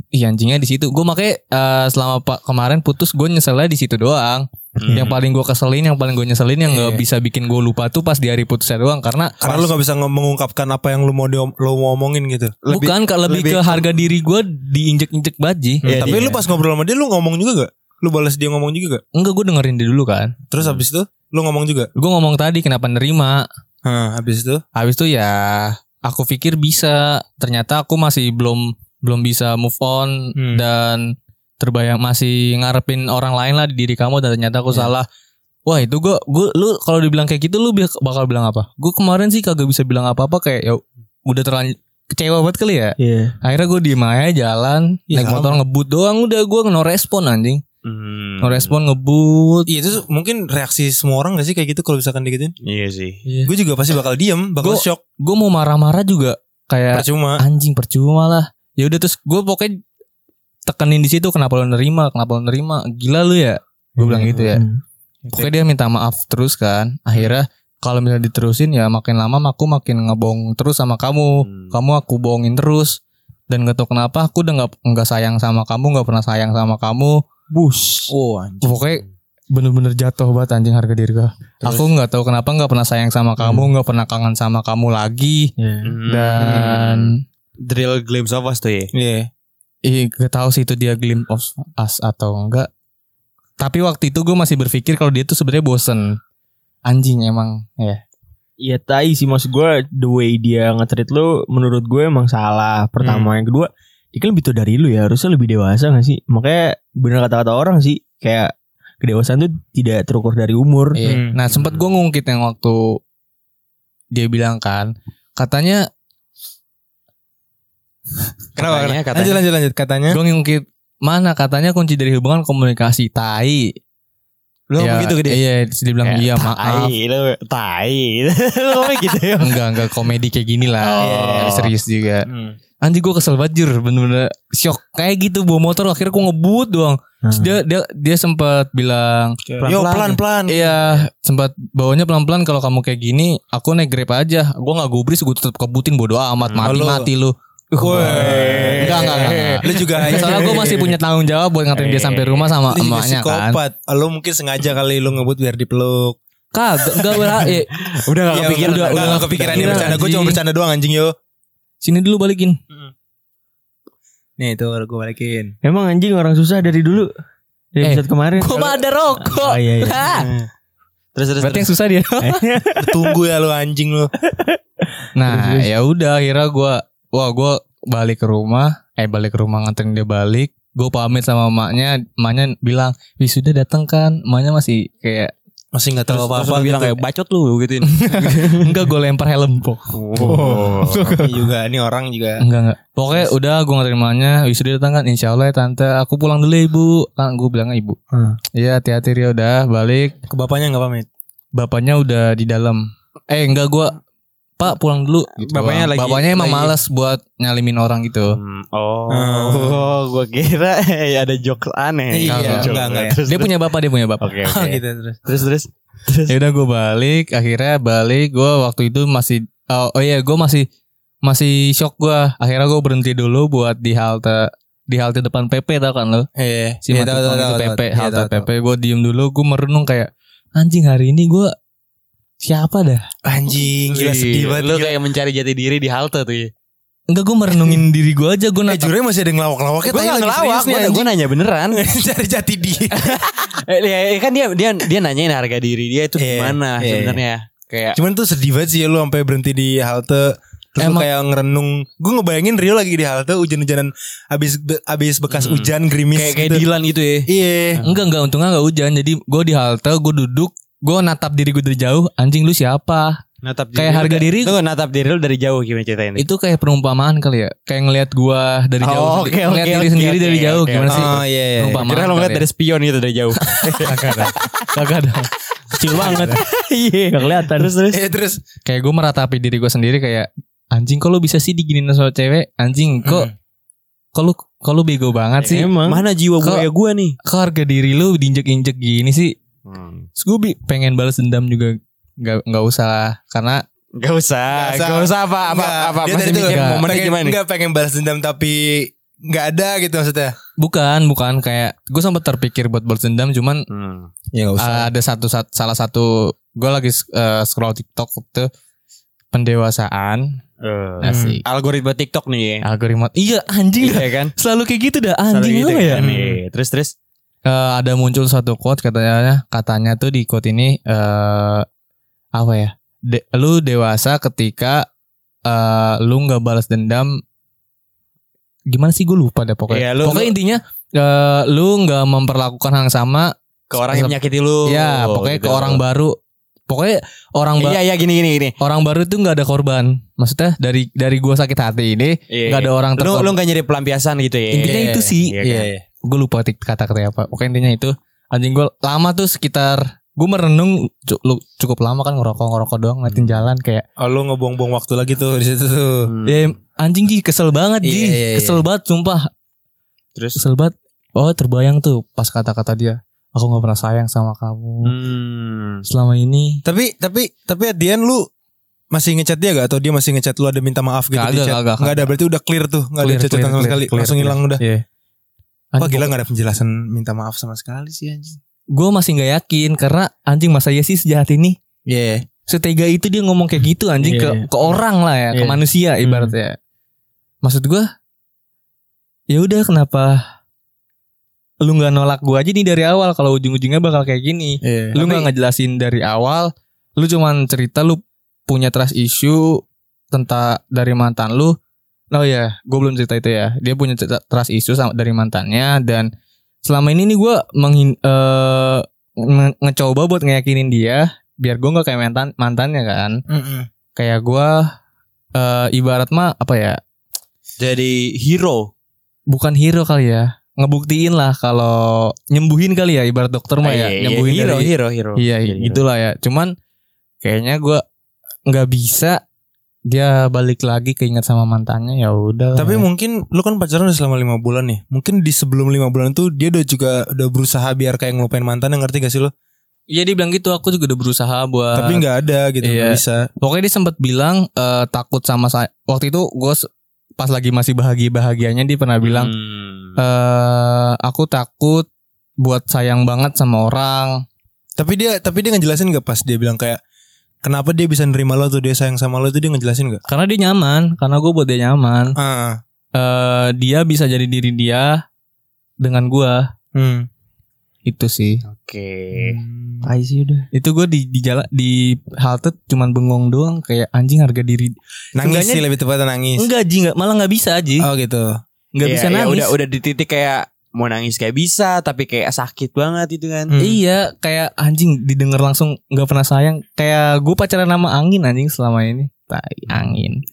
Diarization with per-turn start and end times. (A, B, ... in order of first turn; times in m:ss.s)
0:00.1-0:09.7 A
0:04.8-0:05.2 B
0:09.4-0:12.6 C
0:12.6-0:13.8 B
0:12.7-0:16.3 A
0:15.8-0:16.4 B
0:15.8-0:19.0 C
0:19.1-0:20.3 A
0:20.5-0:21.9 C
0:22.0-0:23.4 A
0:23.8-0:24.6 C
0:24.7-0:35.1 A
0:30.4-0:30.6 C
0:35.6-0:47.6 A
0:43.0-0:43.3 D
0:45.1-0:45.6 C
0:47.8-0:48.7 B
0:48.4-0:49.7 A
0:49.7-0:52.5 C
0:52.6-0:53.2 B
0:53.2-0:53.5 A
0:53.4-0:55.0 C
0:54.6-0:59.8 A
0:56.9-0:57.4 C
1:00.6-1:04.6 A
1:04.0-1:04.8 D
1:05.3-1:17.2 A
1:11.4-1:11.7 B
1:17.5-1:18.1 D
1:18.1-1:18.8 C
1:18.6-1:25.5 A
1:23.4-1:23.7 D
1:25.6-1:25.9 D
1:25.8-1:28.9 B
1:26.0-1:27.2 A
1:26.4-1:26.7 C
1:28.9-1:29.3 C
1:29.8-1:32.7 A
1:33.6-1:36.2 A
1:36.8-1:38.0 A
1:38.6-1:51.0 D
1:43.0-1:43.3 C
1:50.9-1:53.0 A
1:51.0-1:51.4 C
1:51.5-1:51.8 B
1:54.1-1:55.9 A
1:58.6-1:59.4 B
1:58.6-2:00.2 C
2:00.1-2:03.7 A
2:04.7-2:05.4 B
2:04.8-2:06.9 A
2:06.0-2:09.8 B
2:09.4-2:12.2 A
2:10.8-2:11.7 B
2:11.0-2:11.7 C
2:12.2-2:12.6 C
2:12.8-2:19.4 A
2:17.2-2:17.5 D
2:19.5-2:20.9 C
2:19.6-2:20.2 B
2:20.5-2:33.6 A
2:26.4-2:26.8 B
2:26.6-2:27.1 C
2:27.8-2:30.9 C
2:27.9-2:30.7 B
2:31.7-2:32.5 B
2:32.7-2:36.2 C
2:36.5-2:37.7 A
2:37.0-2:37.5 C
2:37.8-2:40.0 B
2:38.3-2:41.1 C
2:38.4-2:40.4 A
2:41.8-2:42.6 A
2:44.4-2:45.5 C
2:45.6-2:47.1 D
2:47.7-2:50.1 D
2:47.8-2:50.3 A
2:50.1-2:50.4 C
2:51.1-2:51.7 B
2:51.4-2:52.4 A
2:52.2-2:53.1 D
2:52.8-2:54.1 C
2:55.1-3:05.3 A
2:55.2-2:55.7 D
3:05.7-3:07.0 C
3:06.1-3:08.7 B
3:08.0-3:11.3 A
3:09.9-3:11.2 B
3:10.2-3:12.4 C
3:12.4-3:18.0 A
3:18.5-3:20.2 A
3:20.3-3:21.1 C
3:21.5-3:24.0 A
3:24.6-3:28.4 A
3:25.4-3:26.7 B
3:28.3-3:33.5 B
3:29.1-3:29.9 C
3:32.1-3:33.2 C
3:32.3-3:32.7 A
3:33.3-3:34.4 A
3:34.2-3:36.3 B
3:34.4-3:35.2 C
3:36.3-3:40.7 A
3:41.2-3:46.3 A
3:46.4-3:48.5 C
3:46.8-3:51.5 A
3:52.4-3:53.1 A
3:53.2-3:55.0 C
3:53.9-3:56.5 B
3:57.1-3:58.9 A
3:58.7-4:01.1 C
3:59.8-4:01.8 B
4:01.7-4:03.2 C
4:02.9-4:08.0 B
4:06.2-4:07.2 C
4:07.9-4:16.6 C
4:10.8-4:11.1 A
4:15.3-4:18.0 B
4:17.3-4:17.8 C
4:17.8-4:23.2 A
4:23.4-4:26.2 B
4:23.7-4:24.5 A
4:26.2-4:32.4 A
4:28.8-4:31.2 B
4:30.9-4:31.8 C
4:31.8-4:34.6 B
4:33.5-4:35.3 A
4:35.8-4:37.7 D
4:35.9-4:36.2 A
4:36.0-4:38.0 B
4:37.9-4:38.4 C
4:38.6-4:43.3 A
4:43.0-4:43.3 C
4:44.1-4:45.7 A
4:45.4-4:47.2 B
4:45.4-4:46.0 D
4:47.2-4:49.3 A
4:49.6-4:50.1 B
4:50.2-4:53.6 A
4:54.0-4:57.4 B
4:54.5-5:00.3 C
4:56.4-4:56.8 A
5:00.6-5:03.6 A
5:03.7-5:04.1 B
5:04.3-5:04.9 C
5:04.6-5:08.5 A
5:09.3-5:10.4 A
5:10.6-5:12.6 B
5:11.0-5:11.4 A
5:11.0-5:11.4 C
5:12.6-5:16.0 A
5:13.8-5:14.3 B
5:15.3-5:16.9 B
5:16.0-5:16.4 C
5:17.4-5:21.6 A
5:22.4-5:24.9 A
5:25.4-5:27.2 A
5:28.7-5:36.2 A
5:29.7-5:30.3 B
5:33.7-5:35.8 B
5:36.7-5:37.8 A
5:37.6-5:38.6 B
5:38.6-5:43.3 A
5:42.3-5:45.7 B
5:44.5-5:53.8 A
5:44.6-5:45.8 C
5:53.1-5:53.4 B
5:54.0-5:56.1 C
5:56.1-5:56.4 B
5:56.2-5:59.3 A
5:57.8-5:58.6 C
6:00.4-6:04.9 A
6:04.8-6:05.8 B
6:05.8-6:06.6 A
6:06.6-6:08.3 C
6:08.9-6:14.6 C
6:11.1-6:12.1 A
6:13.0-6:14.8 A
6:15.7-6:16.1 A
6:15.8-6:18.4 C
6:18.7-6:21.6 A
6:21.8-6:22.2 C
6:22.5-6:26.6 A
6:24.0-6:24.4 D
6:25.3-6:26.2 D
6:27.4-6:27.9 A
6:29.3-6:30.2 A
6:31.6-6:41.6 A
6:34.6-6:35.3 C
6:42.1-6:46.1 A
6:46.6-6:53.2 A
6:53.3-6:53.7 C
6:53.9-6:54.7 A
6:55.3-6:56.8 A
6:57.6-6:58.7 B
6:59.3-7:06.5 A
7:03.6-7:05.8 B
7:07.2-7:07.8 A
7:08.5-7:09.2 A
7:09.9-7:12.8 A
7:12.6-7:19.3 C
7:19.9-7:22.0 A
7:21.7-7:23.2 C
7:22.6-7:26.7 A
7:27.2-7:29.3 A
7:29.0-7:30.0 B
7:30.0-7:31.9 A
7:32.4-7:34.2 A
7:34.8-7:36.8 C
7:37.4-7:40.0 C
7:40.1-7:42.2 A
7:42.2-7:42.6 C
7:42.9-7:45.0 A
7:45.8-7:46.5 A
7:46.7-7:47.1 C
7:47.8-7:48.4 A
7:48.4-7:49.4 B
7:49.2-7:49.9 C
7:49.8-7:50.5 D
7:50.5-7:55.6 A
7:55.2-7:56.5 C
7:56.4-7:57.9 A
7:57.8-7:58.4 C
7:58.7-7:59.5 A
7:58.8-8:03.5 B
8:03.5-8:03.8 C
8:03.6-8:10.2 A